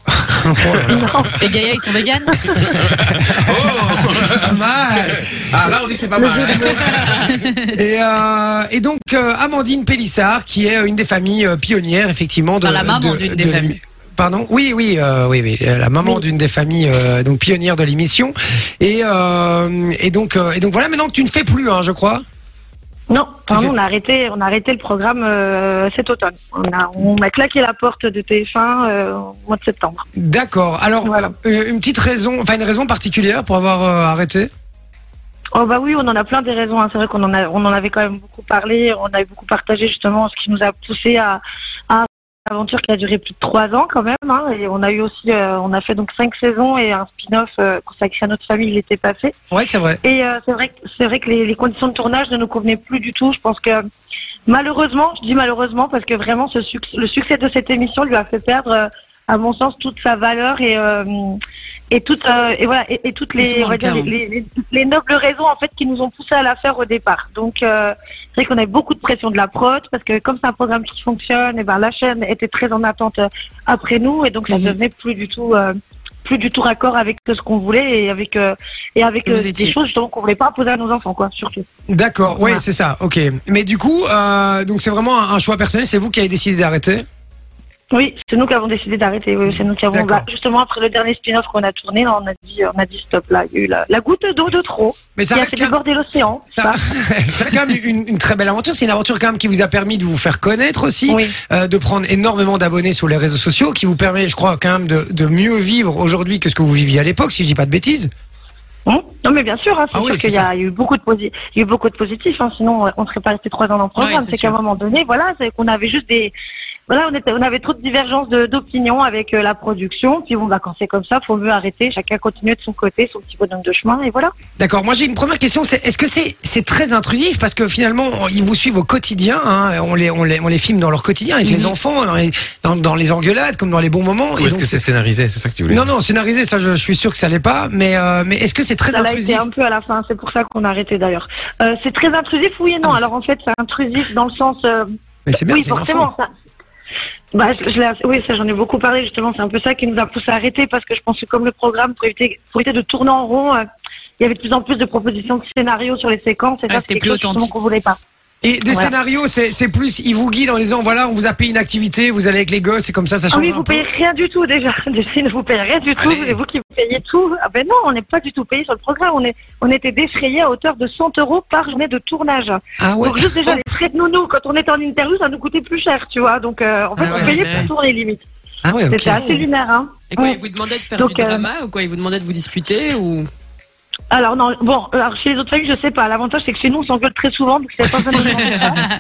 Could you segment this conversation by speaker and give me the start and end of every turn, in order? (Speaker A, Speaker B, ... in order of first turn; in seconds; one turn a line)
Speaker A: 0.1-1.3
Speaker B: 0.9-1.4
Speaker C: 1.4-2.4
Speaker A: 2.6-3.9
Speaker D: 2.6-7.3
Speaker A: 4.4-5.8
Speaker B: 6.1-7.1
Speaker C: 7.0-7.5
Speaker A: 7.7-22.2
Speaker C: 12.6-13.8
Speaker B: 23.1-30.1
Speaker A: 30.2-34.5
Speaker B: 31.0-31.3
Speaker B: 35.5-49.4
Speaker A: 49.5-50.0
Speaker B: 50.0-53.8
Speaker B: 54.5-61.4
Speaker B: 61.9-75.7
Speaker C: 63.4-64.1
Speaker B: 76.2-81.7
Speaker C: 79.2-79.8
Speaker A: 81.9-87.0
Speaker B: 82.3-82.6
Speaker B: 87.9-96.8
Speaker A: 89.9-90.3
Speaker A: 95.2-95.8
Speaker A: 96.5-108.1
Speaker B: 101.1-101.3
Speaker B: 108.9-116.3
Speaker A: 109.9-110.5
Speaker C: 114.0-114.6
Speaker B: 116.9-124.3
Speaker A: 124.6-134.8
Speaker C: 131.4-131.7
Speaker D: 134.4-135.8
Speaker A: 135.7-139.4
Speaker B: 138.9-144.9
Speaker A: 145.3-146.1
Speaker B: 145.5-146.3
Speaker B: 147.3-153.6
Speaker B: 154.2-158.0
Speaker C: 156.7-157.5
Speaker A: 158.4-163.9
Speaker B: 163.3-178.2
Speaker A: 166.0-166.4
Speaker A: 172.8-173.6
Speaker A: 177.0-177.4
Speaker E: 177.1-177.5
Speaker C: 177.2-177.7
Speaker A: 178.6-179.4
Speaker B: 178.9-180.4
Speaker E: 180.1-183.3
Speaker B: 181.0-181.5
Speaker B: 184.1-188.9